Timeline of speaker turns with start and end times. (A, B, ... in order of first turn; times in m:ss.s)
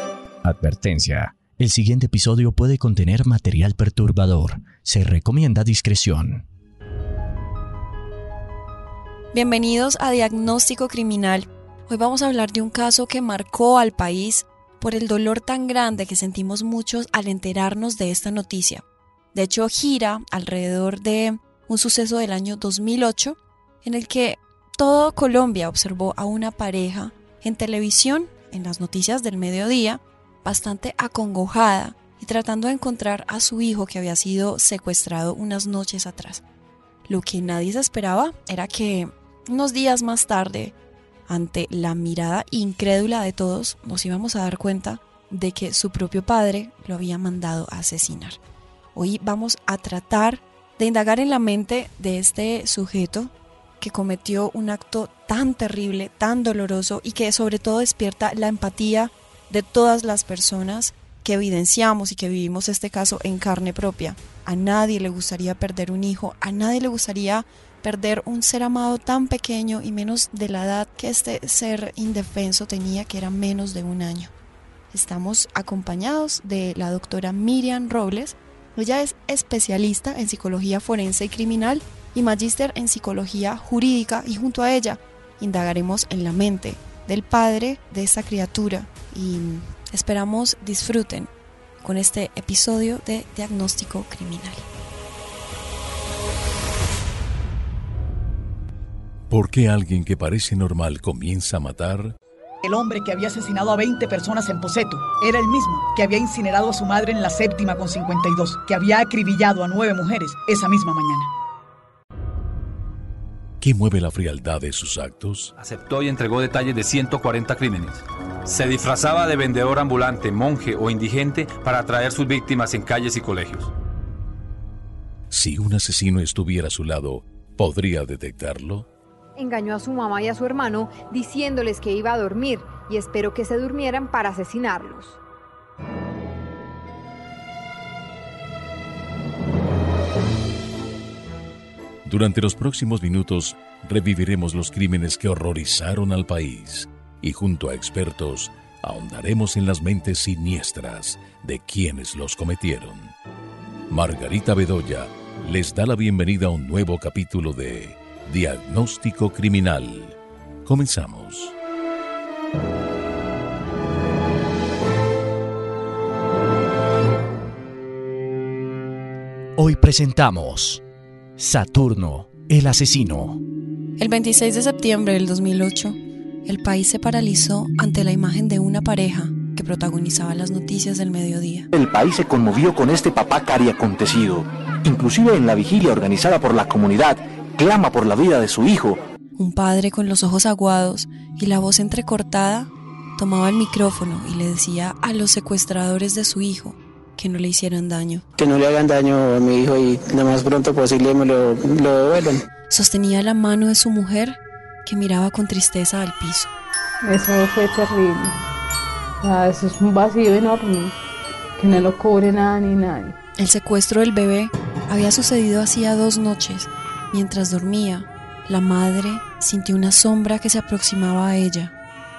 0:00.4-0:06.4 A
0:09.3-0:36.4 B
0:37.1-0:40.8 B
0:41.3-0:48.4 B
0:49.0-1:14.3 B
1:14.9-1:34.6 B
1:39.3-1:42.2 C
1:42.6-1:51.3 D
1:53.6-1:55.5 C
1:55.6-2:03.7 E
2:05.3-2:08.9 C
2:09.4-2:15.2 F
2:22.0-2:33.2 C
2:33.9-2:41.6 C
2:49.6-2:50.8 A
2:51.4-2:53.4 A
2:54.0-3:01.7 B
3:01.7-3:09.0 G
3:09.4-3:18.2 B
3:18.4-3:22.3 H
3:22.7-3:26.5 B
3:27.0-3:28.3 I
3:29.2-3:31.0 I
3:31.6-3:33.2 I
3:33.4-3:41.7 B